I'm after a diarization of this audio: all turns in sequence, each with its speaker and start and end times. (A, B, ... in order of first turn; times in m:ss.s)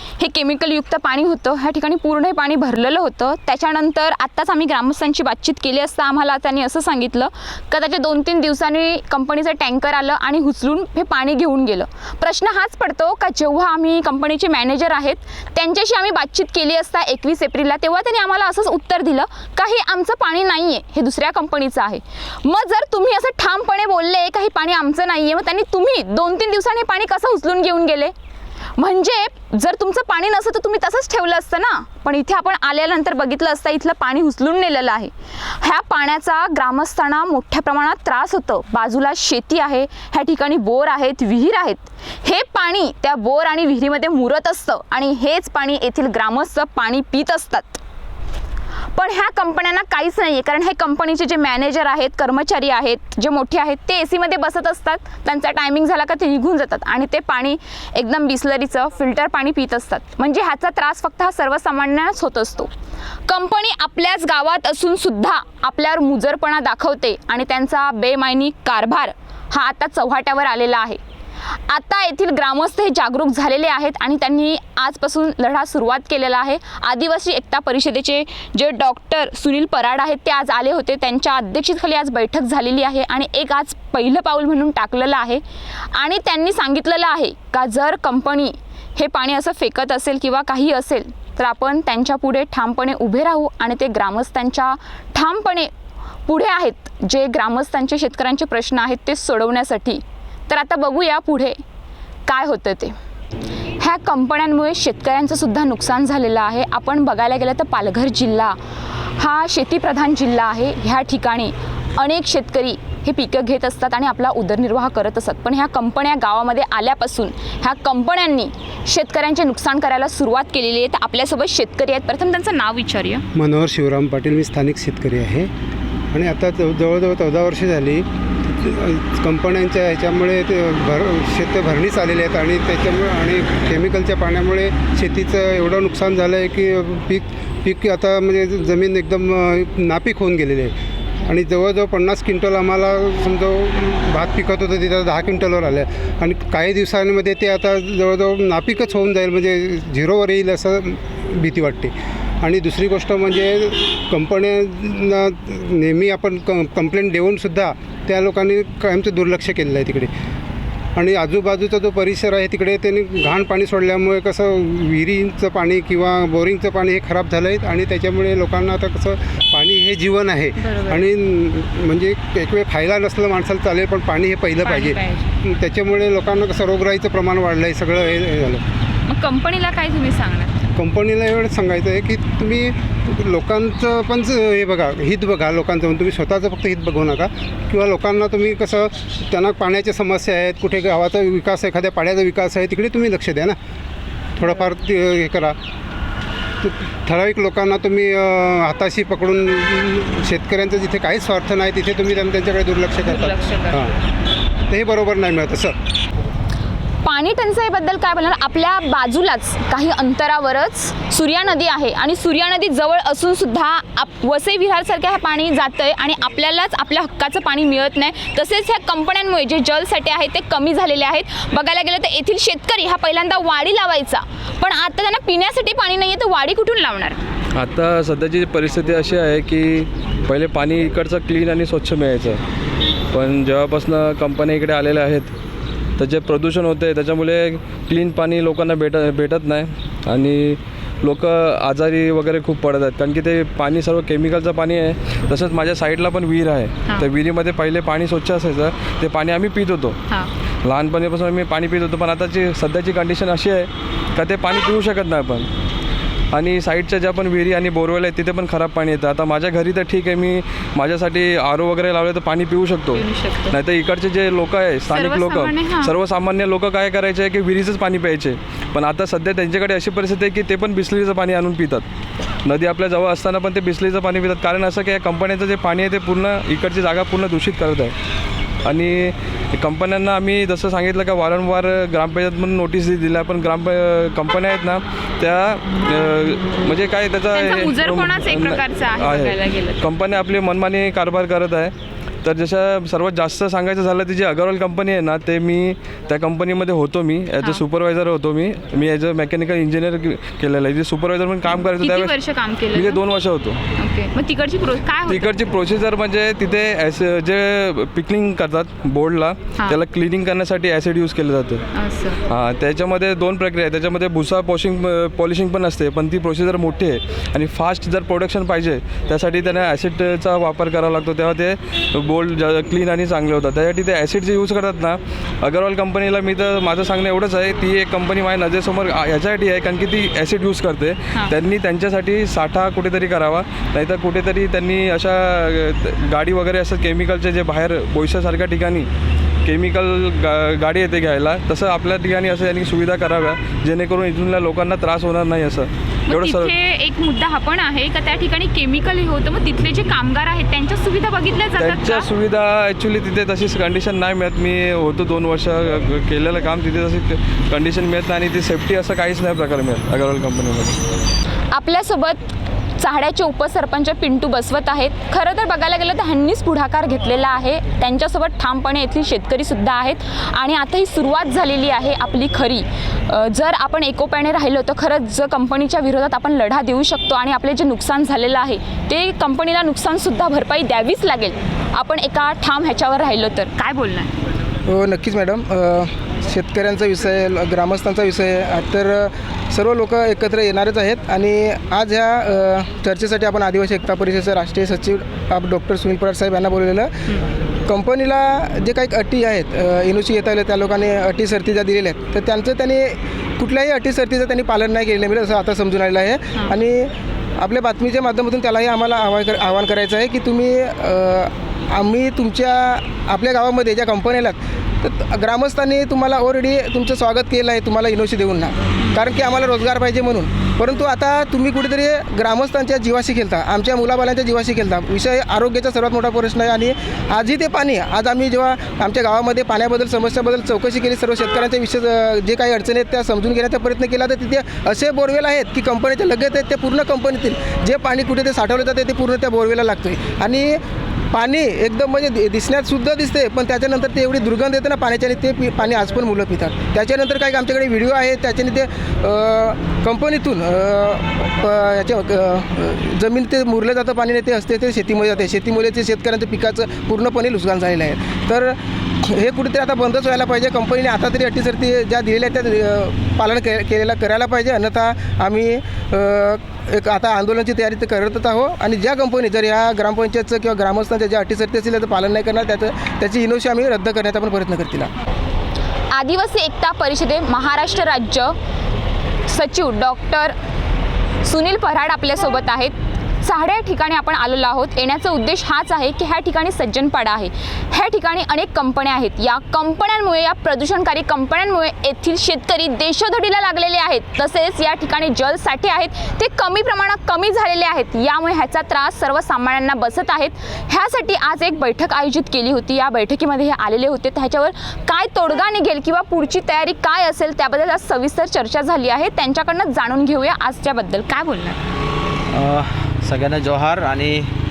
0:00.2-0:28.1 A
0:28.8-0:47.8 A
0:48.9-1:02.7 A
1:03.3-1:11.0 A
1:11.7-1:25.4 A
1:25.9-1:35.7 A
1:36.3-1:41.6 A
1:42.3-1:42.9 A
1:43.8-1:48.6 A
1:49.2-2:03.2 A
2:03.3-2:05.5 B
2:06.1-2:20.7 B
2:21.3-2:40.1 B
2:41.0-2:58.6 B
2:50.6-2:51.0 A
2:54.6-2:55.3 A
2:59.0-3:00.6 A
3:00.8-3:13.6 B
3:14.4-3:15.6 B
3:16.6-3:23.9 B
3:23.1-3:23.7 A
3:24.7-3:25.7 B
3:27.0-3:47.2 A
3:47.5-3:52.4 C
3:53.1-3:55.3 C
3:56.0-4:10.0 C
4:10.6-4:15.5 C
4:16.3-4:31.8 C
4:22.9-4:23.6 A
4:24.9-4:25.9 A
4:32.4-4:37.9 C
4:38.6-5:02.1 C
4:47.3-4:49.8 A
5:01.8-5:03.0 A
5:02.7-5:03.6 C
5:03.7-5:05.4 A
5:05.1-5:11.6 C
5:11.7-5:12.2 A
5:12.3-5:38.9 C
5:39.4-5:46.5 C
5:46.1-5:52.1 A
5:51.6-6:00.8 C
6:01.5-6:24.1 A
6:24.7-6:37.0 D
6:37.7-7:20.6 D
7:21.1-7:54.9 D
7:55.9-7:58.4 A
7:59.2-8:00.3 A
8:01.2-8:31.6 A
8:32.3-8:34.3 E